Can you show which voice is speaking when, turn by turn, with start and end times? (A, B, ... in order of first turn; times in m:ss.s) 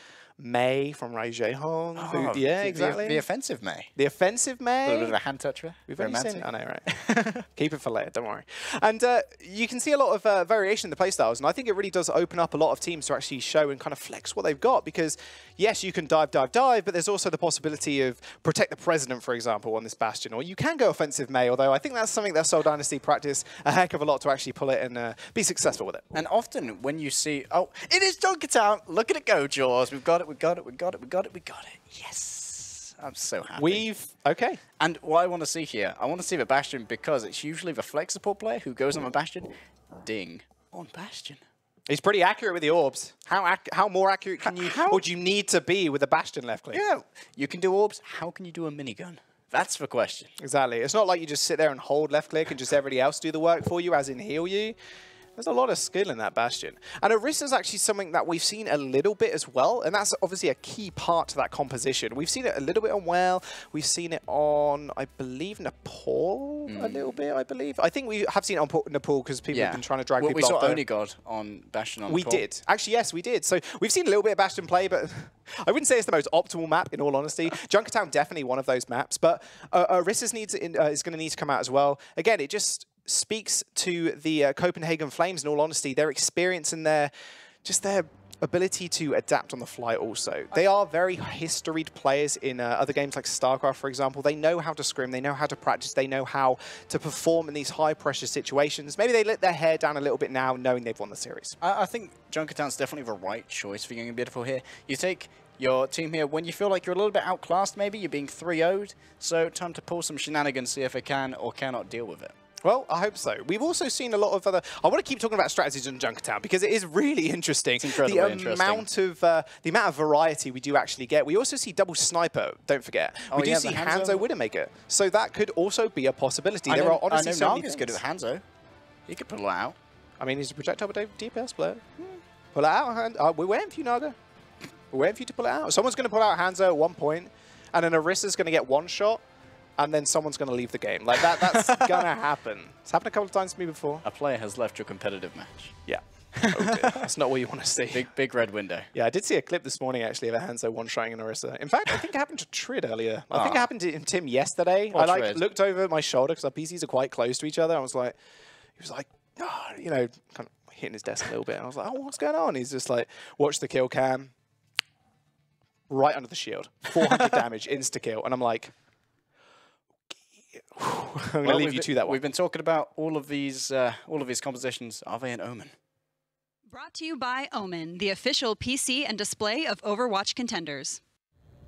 0:00.4-0:03.2 A
0:02.0-0:03.9 B
0:04.0-0:05.2 A
0:04.8-0:07.4 B
0:05.9-0:06.8 A
0:07.5-0:26.1 A
0:26.1-0:33.8 B
0:33.6-0:34.6 A
0:34.8-0:41.4 B
0:41.9-0:46.8 A
0:44.4-0:45.0 B
0:46.7-0:50.3 B
0:50.4-0:54.8 A
0:55.4-1:10.8 A
1:06.7-1:07.0 B
1:09.5-1:12.4 B
1:12.1-1:27.1 A
1:27.6-1:41.6 A
1:41.6-1:52.4 B
1:52.6-2:08.0 A
1:57.8-1:58.8 B
2:03.3-2:04.2 B
2:06.7-2:08.4 B
2:09.1-2:09.8 B
2:10.2-2:11.9 A
2:12.5-2:14.2 A
2:14.9-2:19.2 A
2:19.8-2:24.0 A
2:21.4-2:22.0 B
2:24.0-2:25.7 B
2:25.9-2:28.1 A
2:26.4-2:27.0 B
2:27.9-2:28.9 B
2:28.9-2:38.1 A
2:33.3-2:33.7 B
2:34.9-2:35.4 B
2:38.8-2:44.3 A
2:45.9-2:48.7 A
2:50.1-2:52.2 A
2:51.4-2:55.7 B
2:56.7-3:01.0 C